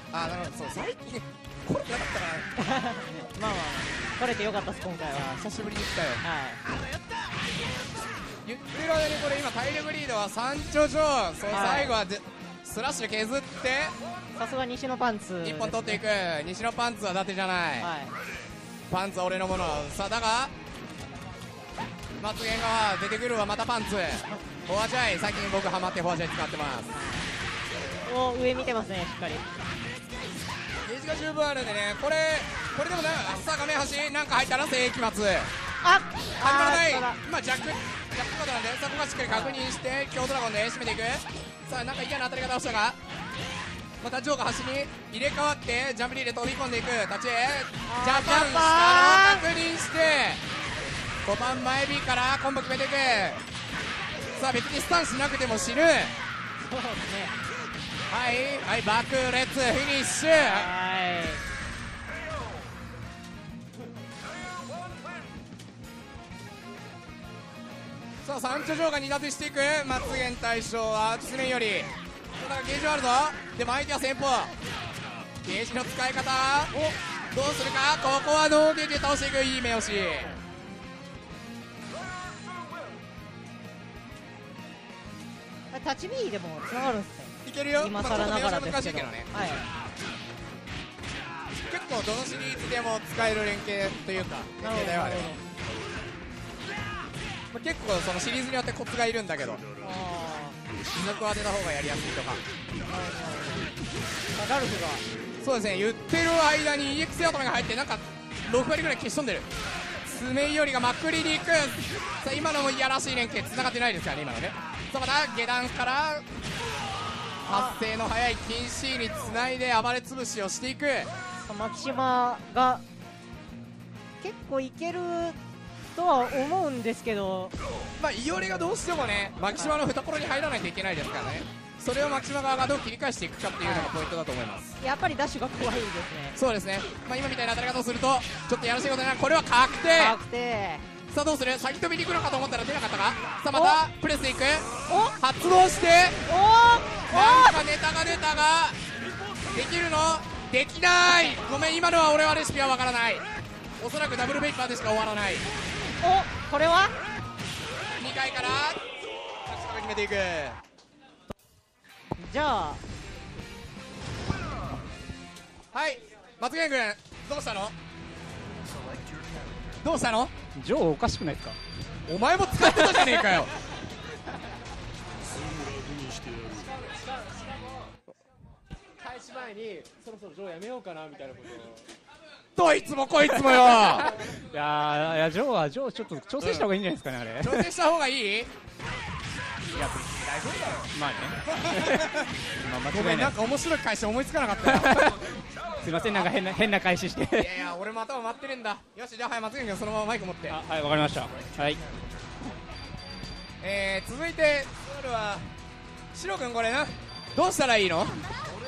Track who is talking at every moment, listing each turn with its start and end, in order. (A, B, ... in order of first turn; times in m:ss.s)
0:00.1-0:02.5 A
0:02.6-0:05.3 B
0:05.1-0:06.2 A
0:06.2-0:06.6 B
0:08.4-0:14.0 A
0:11.5-0:11.9 B
0:14.4-0:16.0 B
0:15.4-0:17.9 A
0:17.8-0:18.1 B
0:18.9-0:20.5 A
0:22.2-0:26.9 A
0:26.9-0:27.3 B
0:28.0-0:29.4 B
0:30.8-0:35.5 A
0:35.8-0:37.2 B
0:36.4-0:43.0 A
0:39.2-0:39.6 B
0:44.0-0:50.4 A
0:47.9-0:49.4 B
0:51.2-0:53.4 A
0:54.3-0:56.1 A
0:56.6-0:57.3 B
0:58.1-1:00.7 A
1:00.3-1:01.4 B
1:08.2-1:14.5 A
1:15.4-1:16.7 A
1:17.3-1:20.3 A
1:25.7-1:29.6 B
1:27.4-1:29.3 A
1:31.7-1:35.3 A
1:34.6-1:35.4 B
1:37.5-1:39.6 A
1:39.8-1:40.6 B
1:40.9-1:42.4 A
1:42.9-1:43.7 B
1:44.4-1:45.0 B
1:45.4-1:49.5 A
1:50.0-1:56.2 A
1:57.4-1:57.8 B
1:57.4-2:01.1 A
2:01.4-2:02.8 B
2:04.2-2:05.4 B
2:05.9-2:07.5 B
2:08.0-2:14.7 A
2:13.6-2:13.9 B
2:14.8-2:16.4 B
2:16.4-2:20.2 A
2:19.9-2:20.8 B
2:21.1-2:26.2 A
2:23.5-2:23.8 B
2:24.9-2:25.2 B
2:26.3-2:27.6 B
2:27.1-2:28.8 A
2:29.5-2:33.2 A
2:33.8-2:35.5 A
2:36.0-2:36.9 B
2:38.0-2:38.8 A
2:39.4-2:40.6 A
2:42.2-2:42.8 B
2:45.7-2:47.7 A
2:49.8-2:50.3 A
2:50.5-2:51.6 C
2:52.1-2:53.5 A
2:52.6-2:53.4 C
2:59.2-3:01.6 C
3:02.6-3:04.1 A
3:03.5-3:07.7 C
3:06.4-3:06.7 A
3:07.4-3:08.5 A
3:09.7-3:10.9 A
3:10.9-3:13.3 C
3:11.5-3:12.3 A
3:12.9-3:15.1 A
3:14.6-3:15.2 C
3:15.8-3:17.5 C
3:17.3-3:20.6 A
3:20.5-3:21.8 C
3:23.6-3:25.5 A
3:26.1-3:28.2 A